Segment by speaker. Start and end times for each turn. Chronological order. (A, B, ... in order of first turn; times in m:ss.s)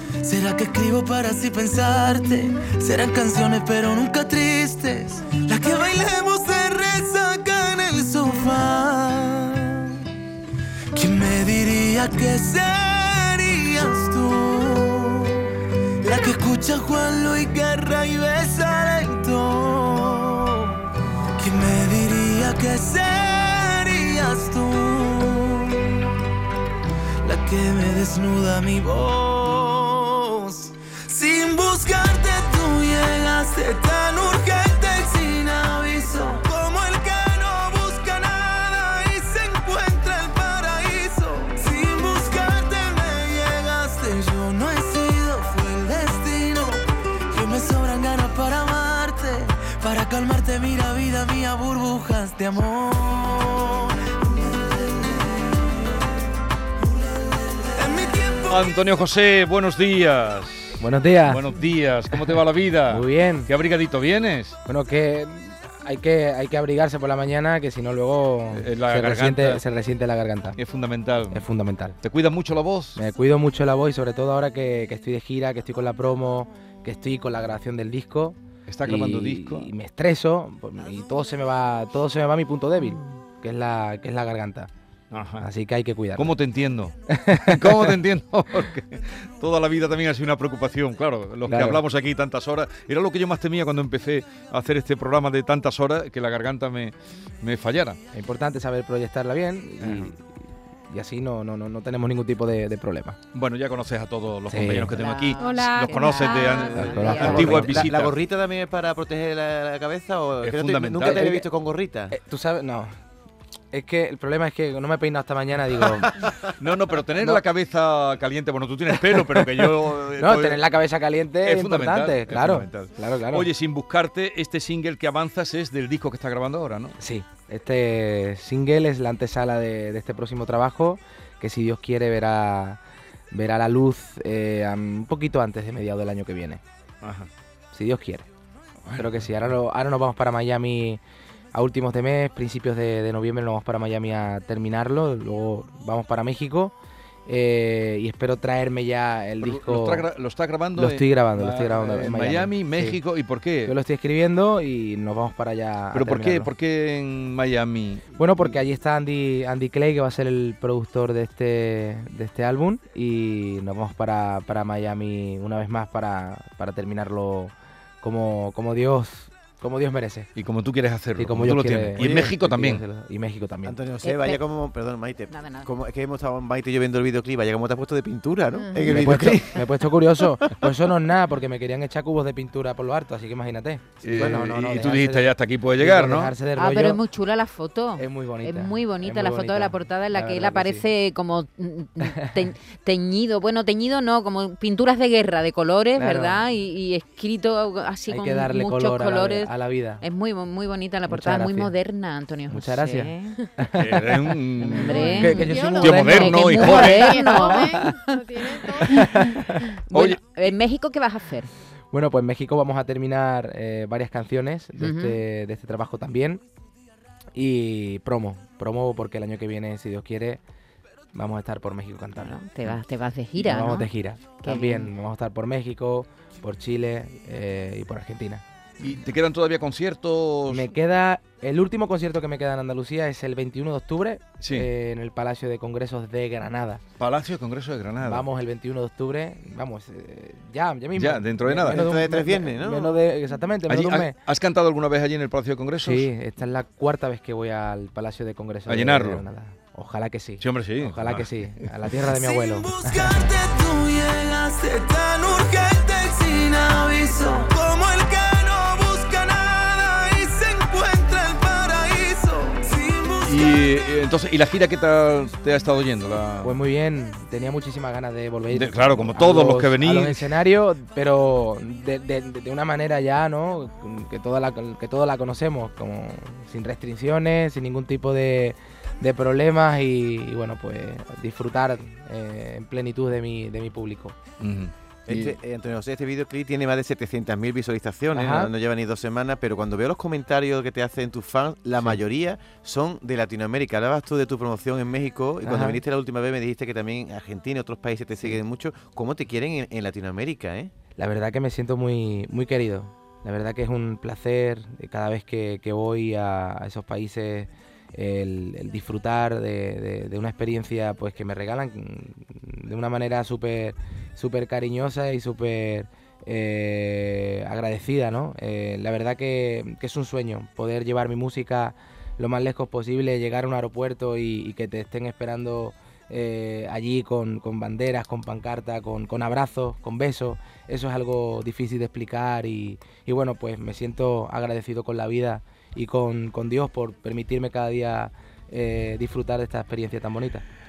0:00.2-0:10.1 A
0:10.9-0:20.8 A
0:21.4-0:26.1 A
0:27.2-0:55.5 A
0:57.6-0:58.7 A
0:58.5-1:04.6 B
1:00.8-1:01.5 C
1:02.9-1:03.5 C
1:04.7-1:10.6 C
1:08.5-1:09.6 B
1:10.6-1:11.4 B
1:11.3-1:12.0 C
1:12.0-1:13.0 B
1:13.0-1:24.7 C
1:18.7-1:19.7 B
1:25.1-1:25.5 B
1:25.4-1:26.3 C
1:26.2-1:26.9 B
1:27.1-1:28.0 C
1:27.5-1:38.0 B
1:31.5-1:31.8 C
1:38.1-1:40.3 C
1:40.9-1:43.2 C
1:43.3-1:48.2 B
1:44.5-1:45.0 C
1:44.9-1:47.9 D
1:45.4-1:46.9 E
1:46.7-1:47.9 C
1:47.2-1:52.2 F
1:50.4-1:51.3 B
1:51.0-1:51.5 C
1:52.1-1:53.0 C
1:53.7-1:56.1 C
1:56.6-2:00.6 B
1:57.2-1:57.4 C
1:59.1-2:03.5 C
2:01.4-2:06.9 B
2:07.0-2:12.8 C
2:13.3-2:16.6 C
2:17.0-2:17.3 B
2:17.7-2:18.3 C
2:18.9-2:21.0 C
2:21.5-2:26.8 C
2:27.3-2:30.1 C
2:29.4-2:33.7 B
2:30.8-2:33.0 C
2:33.6-2:36.5 C
2:35.9-2:38.1 B
2:38.2-2:50.3 C
2:50.4-2:52.8 B
2:51.2-2:53.8 C
2:52.0-2:52.3 F
2:53.6-2:59.7 F
2:54.0-2:54.4 D
2:55.3-2:55.7 D
2:58.5-2:58.9 E
2:58.9-3:07.0 C
3:04.0-3:06.3 B
3:06.5-3:23.4 D
3:08.0-3:10.9 C
3:16.0-3:16.5 C
3:18.1-3:20.0 C
3:21.1-3:21.8 C
3:22.5-3:24.4 C
3:23.8-3:25.2 B
3:24.6-3:28.2 D
3:24.7-3:29.1 E
3:25.2-3:27.4 C
3:25.8-3:27.4 B
3:28.9-3:31.5 D
3:28.9-3:29.4 C
3:29.9-3:30.5 B
3:31.9-3:36.4 C
3:34.8-3:35.2 D
3:37.4-3:40.4 C
3:41.1-3:42.7 C
3:42.2-3:43.9 D
3:43.4-3:48.4 C
3:44.4-3:44.9 D
3:48.8-3:50.7 B
3:50.5-3:56.8 C
3:54.4-3:54.7 B
3:57.0-3:58.3 B
3:58.0-4:04.2 C
4:01.0-4:01.8 B
4:01.7-4:03.0 F
4:03.7-4:06.1 B
4:05.8-4:13.3 C
4:08.7-4:09.2 B
4:10.4-4:11.3 B
4:12.0-4:23.6 A
4:23.3-4:26.6 B
4:26.4-4:44.2 C
4:28.5-4:30.3 B
4:44.4-4:45.4 B
4:45.1-5:00.7 F
4:48.1-4:48.5 C
4:55.4-4:55.8 C
5:01.0-5:40.4 C